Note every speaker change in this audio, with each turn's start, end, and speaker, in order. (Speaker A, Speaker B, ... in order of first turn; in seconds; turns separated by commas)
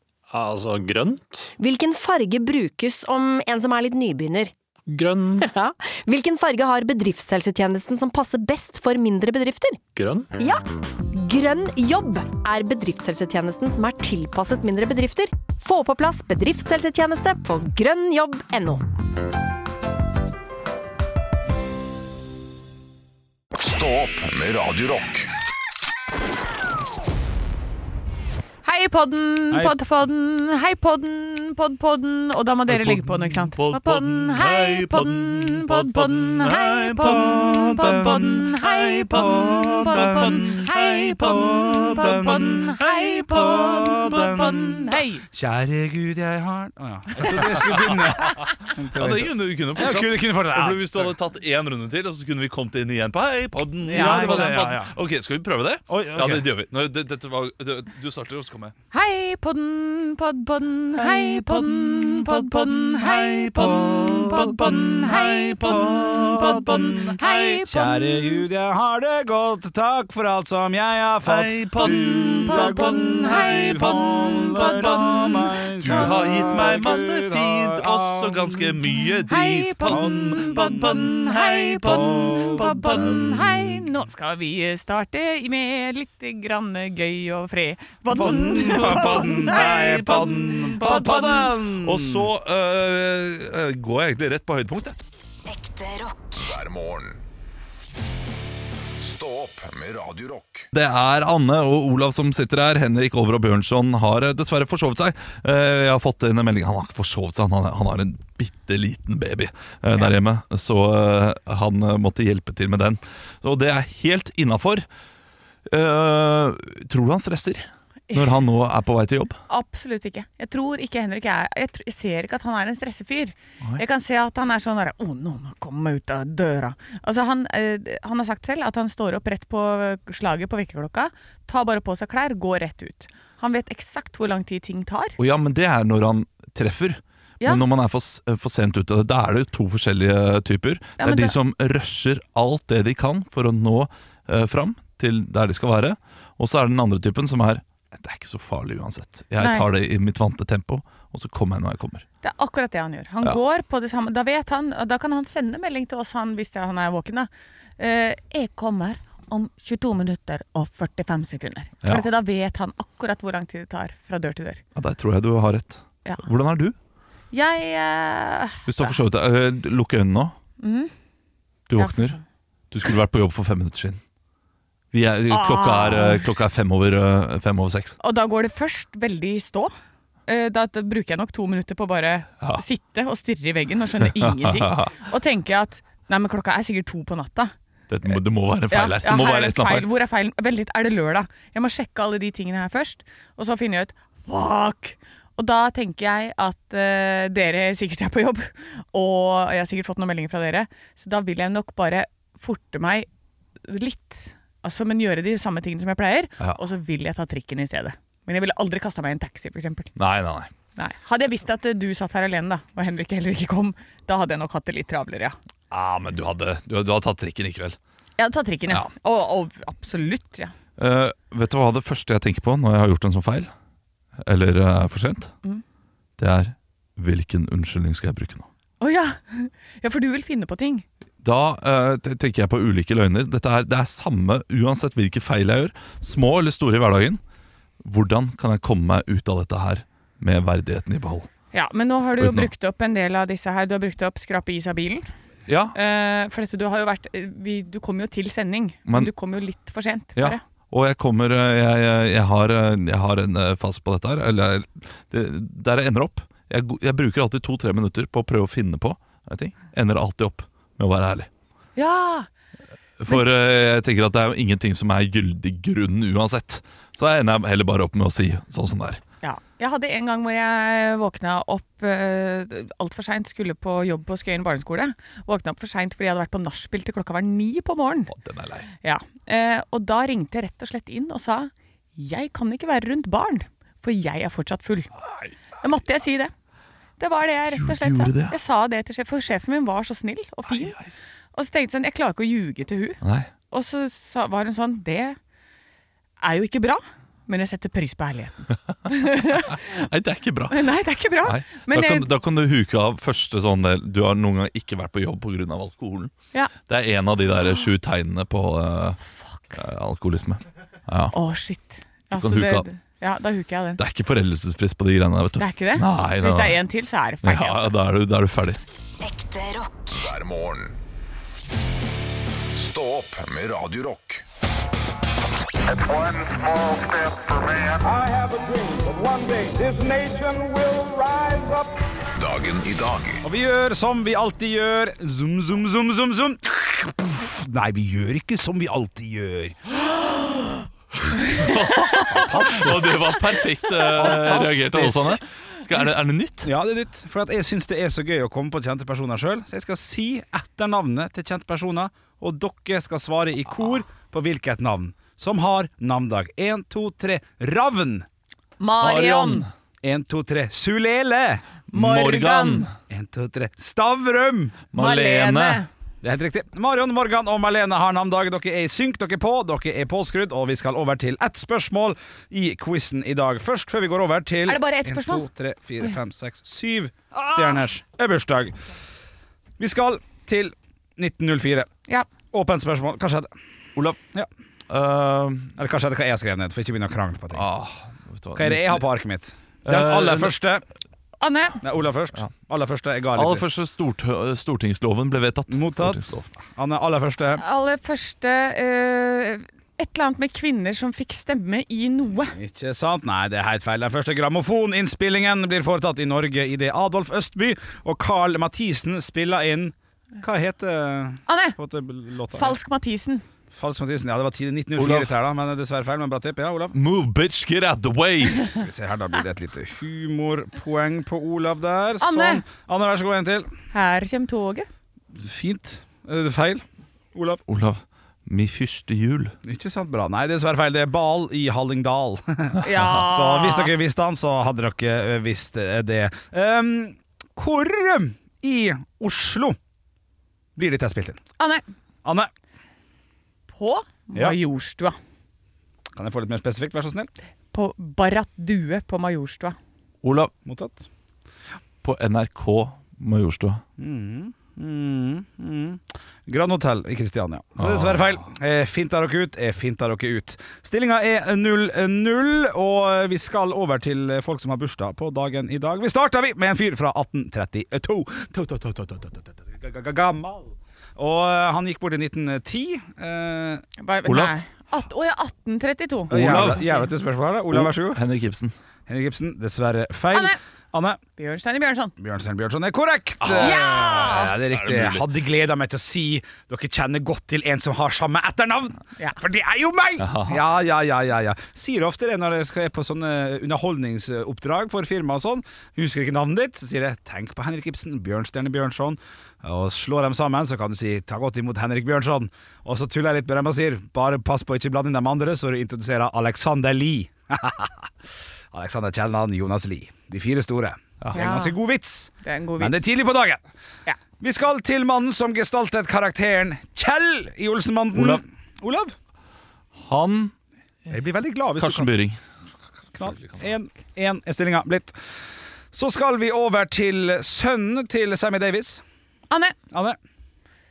Speaker A: 0.3-1.5, Speaker B: 1.6-4.5, Speaker A: 4.9-5.5, Speaker B: 5.4-9.8, Speaker A: 9.9-10.3, Speaker B: 10.4-18.8, Speaker C: 23.5-25.3, Speaker D: 28.6-45.2, Speaker E: 32.7-44.0, Speaker F: 37.0-51.1, Speaker E: 47.6-58.7, Speaker D: 53.9-54.6, Speaker F: 53.9-54.9, Speaker F: 55.9-56.4, Speaker D: 58.9-68.4, Speaker E: 61.0-67.6, Speaker F: 65.6-67.1, Speaker F: 67.7-78.8, Speaker E: 71.2-83.5, Speaker D: 71.8-76.6, Speaker D: 79.3-90.1, Speaker F: 79.9-81.0, Speaker F: 81.9-83.4, Speaker F: 88.1-92.3, Speaker E: 88.2-95.0, Speaker D: 90.8-91.5, Speaker C: 95.5-97.2, Speaker C: 99.0-100.7, Speaker E: 100.7-114.8, Speaker E: 115.7-119.4, Speaker D: 119.5-135.1, Speaker E: 135.2-152.0, Speaker D: 141.0-141.3, Speaker D: 149.4-149.7, Speaker D: 152.2-164.6, Speaker E: 161.8-162.1, Speaker E: 164.7-166.7, Speaker D: 167.3-168.9, Speaker E: 168.7-170.3, Speaker D: 170.6-170.9, Speaker E: 171.7-172.2, Speaker D: 171.8-172.2, Speaker E: 172.7-174.0, Speaker E: 174.9-177.9, Speaker D: 175.3-176.2, Speaker D: 178.0-179.7, Speaker D: 180.2-187.5, Speaker E: 184.0-184.9, Speaker E: 187.9-189.9, Speaker D: 188.7-203.1, Speaker D: 203.6-209.9, Speaker E: 209.9-210.5, Speaker D: 210.8-215.3, Speaker E: 215.7-217.8, Speaker D: 218.2-220.5, Speaker E: 220.8-223.5, Speaker E: 224.2-225.3, Speaker E: 226.2-228.5, Speaker D: 228.8-230.8, Speaker E: 231.2-237.2, Speaker E: 237.8-241.3, Speaker D: 241.5-245.1, Speaker E: 242.2-242.5, Speaker E: 245.5-245.7, Speaker D: 245.7-250.4, Speaker E: 250.2-261.3, Speaker D: 261.8-262.3, Speaker E: 263.0-269.0, Speaker D: 269.2-278.1, Speaker E: 278.1-278.7, Speaker D: 278.8-284.9, Speaker E: 285.0-285.3, Speaker D: 285.6-286.3, Speaker D: 287.0-290.8, Speaker E: 287.5-288.3, Speaker E: 290.5-290.9, Speaker D: 291.3-293.0, Speaker E: 293.0-293.3, Speaker D: 293.5-295.2, Speaker D: 296.2-299.9, Speaker E: 299.5-300.7, Speaker D: 300.5-302.1, Speaker E: 301.2-309.0, Speaker D: 309.1-309.6, Speaker E: 309.5-311.1, Speaker D: 311.1-313.8, Speaker E: 312.1-312.6, Speaker E: 313.8-316.6, Speaker D: 315.4-317.7, Speaker E: 317.2-318.6, Speaker C: 319.1-320.8, Speaker C: 322.5-324.2, Speaker C: 325.9-327.8, Speaker G: 327.9-331.7, Speaker C: 332.1-333.2, Speaker F: 333.2-339.7, Speaker E: 341.2-346.5, Speaker F: 342.1-343.2, Speaker D: 343.7-344.4, Speaker F: 343.9-345.2, Speaker F: 346.4-358.1, Speaker D: 358.6-359.4, Speaker E: 358.8-359.5, Speaker F: 359.8-361.4, Speaker D: 361.7-362.7, Speaker E: 361.7-362.7, Speaker F: 362.9-364.6, Speaker E: 364.7-365.6, Speaker D: 364.7-365.7, Speaker F: 366.0-378.6, Speaker D: 374.4-375.3, Speaker D: 377.1-377.6, Speaker F: 379.6-381.7, Speaker F: 382.3-383.3, Speaker F: 383.9-384.3, Speaker E: 384.7-385.5, Speaker F: 385.6-387.4, Speaker E: 387.3-388.8, Speaker F: 388.3-390.6, Speaker E: 389.6-390.4, Speaker D: 391.2-391.6, Speaker F: 391.6-393.4, Speaker E: 393.1-396.3, Speaker F: 395.5-397.4, Speaker D: 397.4-402.4, Speaker F: 402.3-412.6, Speaker D: 411.3-411.6, Speaker D: 412.3-413.2, Speaker F: 413.5-416.8, Speaker E: 414.8-415.1, Speaker E: 416.7-418.5, Speaker F: 418.5-423.5, Speaker D: 422.0-422.4, Speaker D: 423.7-424.7, Speaker F: 425.1-427.4, Speaker E: 427.5-429.3, Speaker F: 429.4-439.6, Speaker D: 432.6-433.7, Speaker F: 440.6-441.2, Speaker D: 441.4-441.6, Speaker F: 442.0-442.3, Speaker D: 443.5-444.9, Speaker F: 445.9-447.1, Speaker D: 447.5-449.6, Speaker E: 450.0-450.3, Speaker F: 450.4-450.9, Speaker E: 451.8-453.6, Speaker F: 453.8-473.6, Speaker E: 457.6-458.1, Speaker D: 473.8-476.8, Speaker E: 474.1-474.3, Speaker E: 476.1-476.6, Speaker F: 476.1-478.0, Speaker E: 477.5-478.5, Speaker F: 478.9-481.0, Speaker D: 481.2-481.9, Speaker F: 482.0-507.9, Speaker E: 483.2-485.1, Speaker D: 483.4-484.3, Speaker E: 490.0-490.4, Speaker F: 508.5-513.4, Speaker D: 511.1-511.6, Speaker D: 512.2-512.9, Speaker F: 514.2-518.9, Speaker E: 517.9-518.2, Speaker E: 519.8-520.3, Speaker F: 520.9-521.9, Speaker E: 521.6-522.2, Speaker F: 522.9-525.0, Speaker E: 523.0-523.4, Speaker F: 525.7-528.8, Speaker D: 529.3-529.6, Speaker F: 529.7-530.0